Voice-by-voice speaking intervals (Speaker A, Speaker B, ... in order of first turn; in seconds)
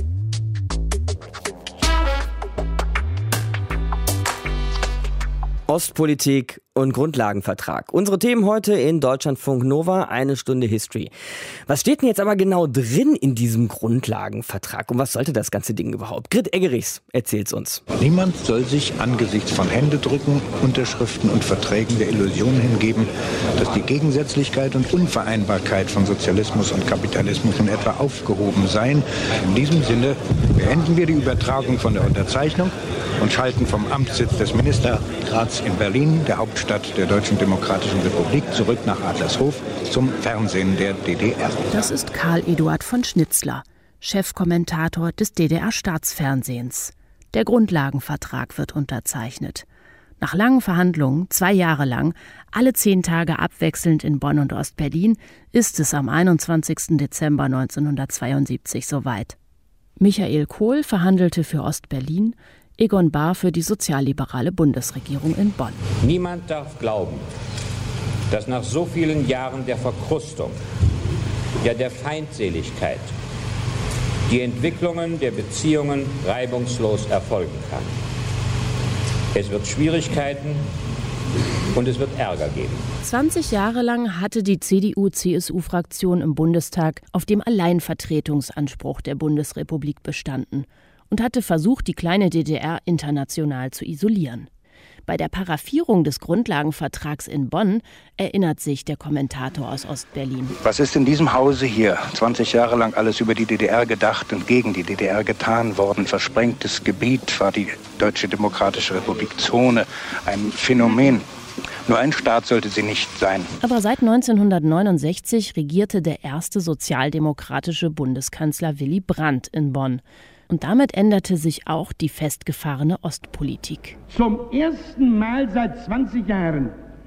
Speaker A: 5.7-11.1, 11.7-17.8
Speaker B: 18.0-41.7, 100.6-111.2, 111.9-113.5
Speaker C: 41.7-49.6, 50.2-59.4, 60.0-65.8, 83.0-94.5, 95.1-100.5, 113.6-124.0
Speaker D: 66.0-67.2, 68.3-70.6, 71.6-73.1, 74.3-77.9, 79.3-80.6, 81.7-82.8
Speaker E: 124.1-126.7